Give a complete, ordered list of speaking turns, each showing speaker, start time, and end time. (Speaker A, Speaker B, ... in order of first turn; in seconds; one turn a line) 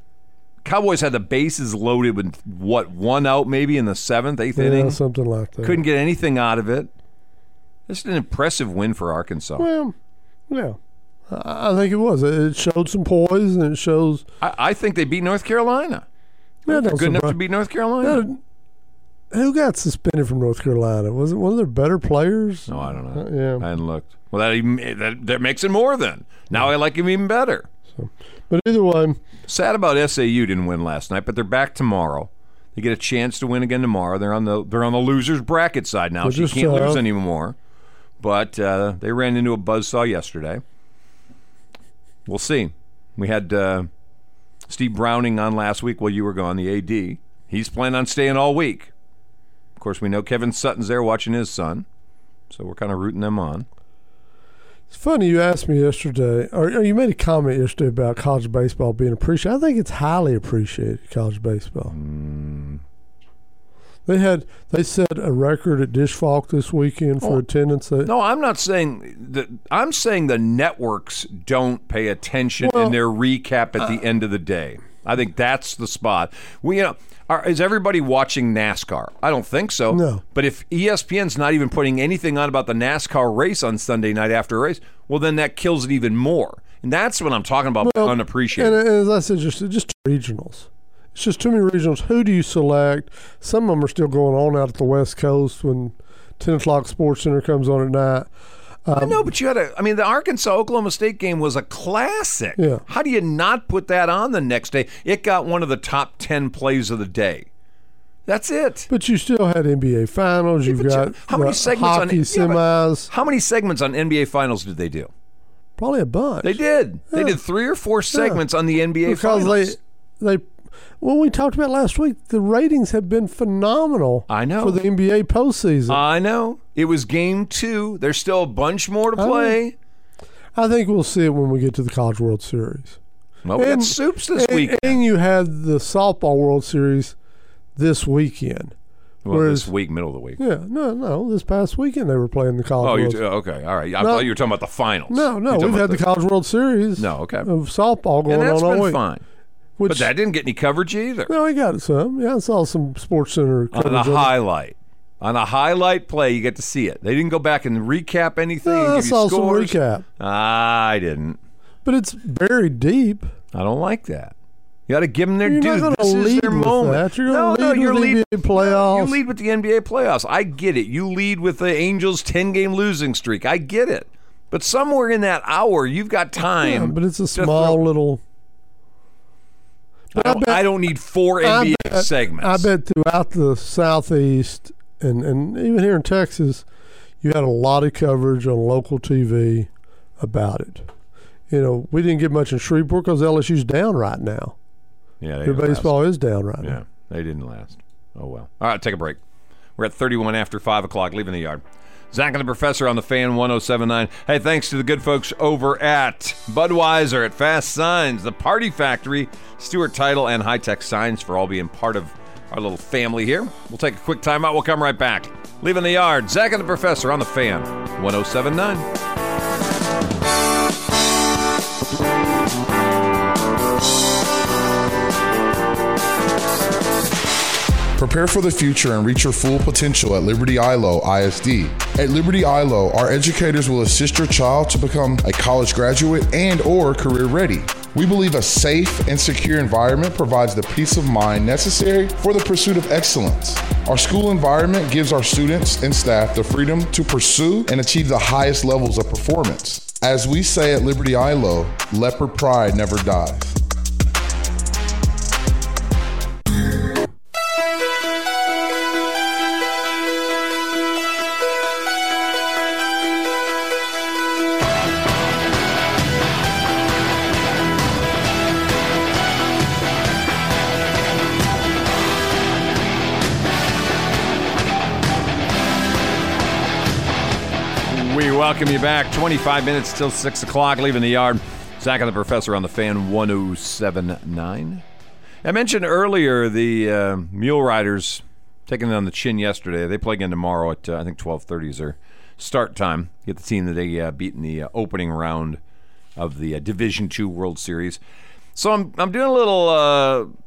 Speaker A: 0.6-5.0
Speaker B: 4.5-5.8
Speaker A: 5.6-6.9
Speaker A: 7.9-9.7
Speaker B: 9.6-9.9
Speaker B: 10.5-10.8
Speaker B: 11.3-14.2
Speaker A: 14.4-16.0
Speaker B: 16.7-17.4
Speaker A: 16.7-18.2
Speaker B: 18.0-18.4
Speaker B: 19.3-23.6
Speaker A: 22.7-27.7
Speaker B: 27.9-29.2
Speaker A: 29.5-37.5
Speaker B: 36.2-37.0
Speaker A: 38.2-40.6
Speaker A: 42.2-43.9
Speaker A: 44.7-48.9
Speaker A: 49.8-51.8
Speaker A: 52.5-53.6
Speaker B: 54.9-61.9
Speaker A: 61.9-62.8
Speaker B: 64.0-68.1
Speaker A: 68.0-88.8
Speaker B: 72.6-73.0
Speaker B: 79.9-80.2
Speaker B: 87.8-98.3
Speaker B: 98.8-99.2
Speaker A: 98.9-107.5
Speaker B: 102.6-102.8
Speaker A: 108.2-108.9
Speaker B: 108.9-113.1
Speaker A: 110.7-115.1
Speaker B: 115.8-116.6
Speaker A: 116.4-119.8
Speaker B: 117.1-117.4
Speaker B: 118.1-118.4
Speaker B: 119.0-120.5
Speaker B: 121.0-126.0
Speaker A: 124.3-124.8
Speaker A: 125.9-129.7
Speaker B: 129.2-129.6
Speaker B: 130.5-133.0
Speaker A: 133.4-135.0
Speaker B: 133.6-137.1
Speaker B: 137.8-138.7
Speaker A: 139.2-140.4
Speaker B: 139.3-139.7
Speaker B: 140.4-143.2
Speaker A: 142.8-146.1
Speaker B: 144.0-144.3
Speaker B: 145.1-149.0
Speaker A: 147.0-147.5
Speaker A: 148.3-149.2
Speaker B: 149.8-150.1
Speaker A: 149.9-151.3
Speaker B: 151.3-154.3
Speaker A: 153.7-161.4
Speaker B: 158.6-160.0
Speaker B: 161.8-163.3
Speaker A: 163.5-164.3
Speaker A: 164.9-177.8
Speaker B: 165.4-169.2
Speaker B: 176.6-178.2
Speaker B: 180.1-180.7
Speaker A: 180.1-182.7
Speaker B: 181.4-186.6
Speaker B: 187.2-190.9
Speaker B: 191.5-194.6
Speaker A: 195.2-196.0
Speaker B: 195.4-196.8
Speaker A: 196.6-199.2
Speaker A: 199.8-218.9
Speaker C: 227.9-253.6
Speaker A: 277.9-284.8
Speaker A: 285.4-295.6
Speaker A: 296.1-298.0
Speaker A: 298.5-300.3